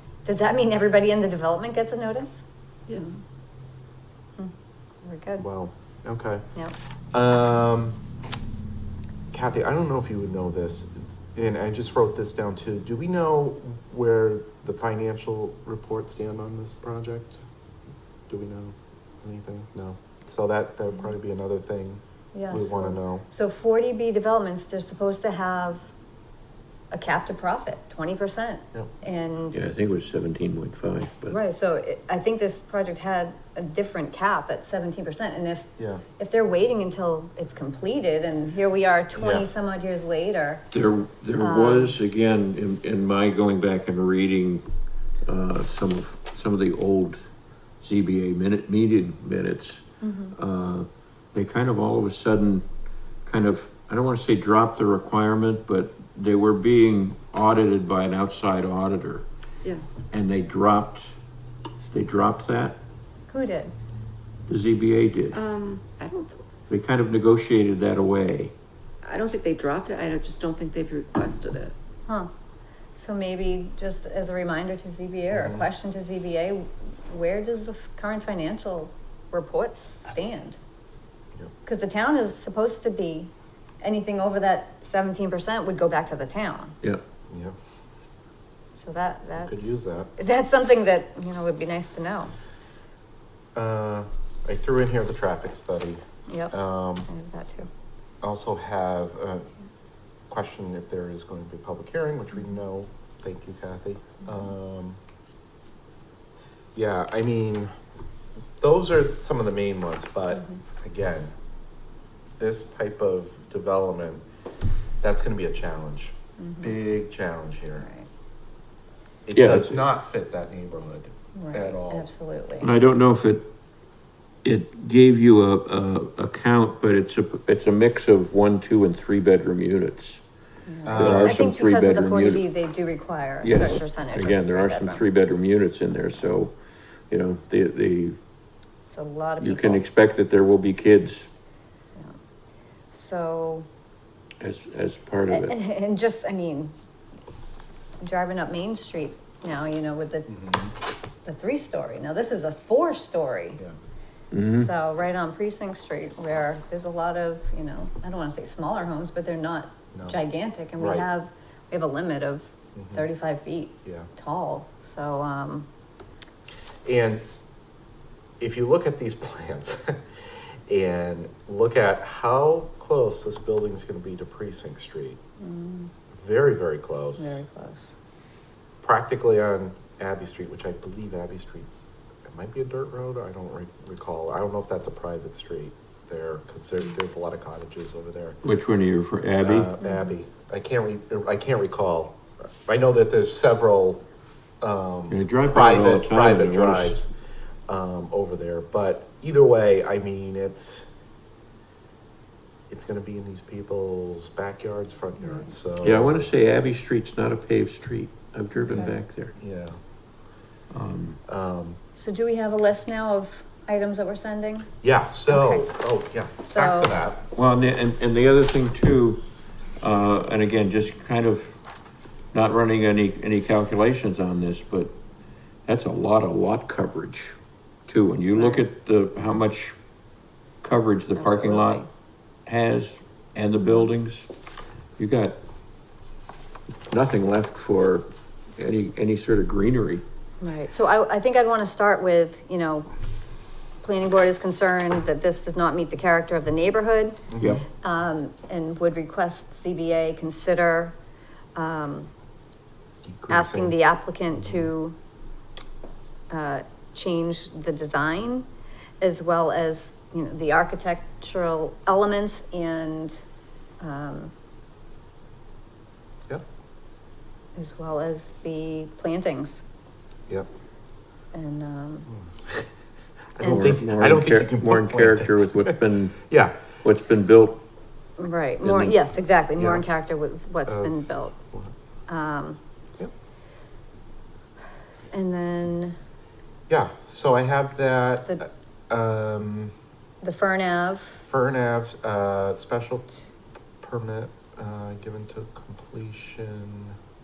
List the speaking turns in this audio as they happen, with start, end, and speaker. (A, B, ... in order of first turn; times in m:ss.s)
0:00.2-0:03.2 A
0:04.4-0:05.4 A
0:05.4-0:06.4 B
0:07.1-0:08.0 B
0:09.3-0:17.4 B
0:18.3-0:23.2 B
0:22.3-0:25.9 A
0:26.9-0:29.6 A
0:29.5-0:31.4 C
0:31.3-0:40.7 A
0:35.8-0:36.0 B
0:39.2-0:39.4 B
0:40.7-0:44.6 C
0:41.4-0:42.0 A
0:45.2-0:47.2 C
0:47.8-0:52.6 C
0:50.0-0:50.3 A
0:53.2-0:59.2 C
1:00.1-1:01.1 C
1:01.9-1:02.8 C
1:03.3-1:03.7 A
1:04.5-1:05.4 C
1:05.3-1:06.4 D
1:06.7-1:08.5 C
1:09.0-1:11.7 D
1:12.9-1:20.6 A
1:15.3-1:15.7 B
1:21.6-1:26.8 A
1:27.3-1:27.5 B
1:28.8-1:32.3 A
1:29.4-1:30.1 B
1:33.5-1:37.1 B
1:36.3-1:36.5 A
1:37.1-1:37.7 A
1:38.2-1:39.5 B
1:40.3-1:45.0 B
1:46.7-1:47.7 B
1:48.6-1:51.3 B
1:50.3-1:50.6 A
1:52.4-1:54.2 B
1:55.0-1:57.9 B
1:56.4-1:56.7 A
1:57.8-1:58.1 A
1:59.3-2:02.1 B
1:59.3-1:59.8 C
2:01.3-2:02.7 A
2:02.6-2:03.5 C
2:04.4-2:10.2 C
2:10.6-2:15.0 A
2:10.8-2:11.4 B
2:10.9-2:12.4 C
2:13.4-2:16.6 C
2:17.1-2:18.2 C
2:18.8-2:19.8 A
2:19.4-2:21.3 C
2:22.9-2:23.7 A
2:24.4-2:25.6 C
2:25.3-2:26.7 A
2:28.0-2:30.3 A
2:30.3-2:30.7 B
2:31.2-2:33.6 A
2:34.3-2:34.7 C
2:34.5-2:45.7 A
2:39.9-2:40.2 B
2:40.8-2:41.1 B
2:42.7-2:43.0 B
2:46.8-2:47.2 B
2:48.4-2:50.0 B
2:50.7-2:55.2 B
2:55.4-2:55.9 A
2:56.1-2:57.4 B
2:57.2-2:57.9 A
2:58.8-3:08.4 B
3:08.4-3:09.7 C
3:09.4-3:14.0 B
3:09.8-3:10.1 A
3:14.6-3:17.1 B
3:15.1-3:17.0 C
3:17.7-3:20.9 B
3:22.7-3:26.3 B
3:25.2-3:25.5 A
3:25.8-3:29.3 C
3:28.6-3:28.9 A
3:28.7-3:29.8 B
3:30.7-3:31.2 C
3:31.3-3:31.8 B
3:32.0-3:34.7 A
3:34.8-3:37.2 B
3:35.3-3:35.8 A
3:36.4-3:36.9 A
3:37.3-3:39.2 C
3:39.8-3:41.6 C
3:42.3-3:45.0 C
3:45.6-3:47.3 C
3:47.9-3:49.8 C
3:48.3-3:48.6 A
3:50.6-3:51.8 C
3:51.1-3:51.9 A
3:52.4-3:54.3 C
3:53.6-3:53.9 A
3:55.0-3:55.4 C
3:56.9-4:00.0 C
4:00.4-4:02.9 A
4:03.8-4:10.9 A
4:07.3-4:07.6 B
4:07.4-4:07.6 C
4:11.5-4:12.1 A
4:13.0-4:13.8 B
4:13.3-4:15.0 A
4:14.4-4:14.6 B
4:16.3-4:18.5 A
4:19.0-4:23.2 A
4:23.8-4:24.3 A
4:27.6-4:29.6 A
4:31.3-4:32.1 A
4:32.1-4:32.6 B
4:33.4-4:36.6 B
4:33.4-4:33.8 A
4:33.4-4:36.3 C
4:36.8-4:37.6 C
4:38.2-4:41.4 A
4:38.6-4:39.0 C
4:39.6-4:39.8 B
4:40.6-4:41.7 B
4:42.1-4:42.6 A
4:45.1-4:46.0 A
4:46.7-4:49.7 B
4:50.2-4:51.2 A
4:51.2-4:53.1 B
4:53.8-4:57.0 B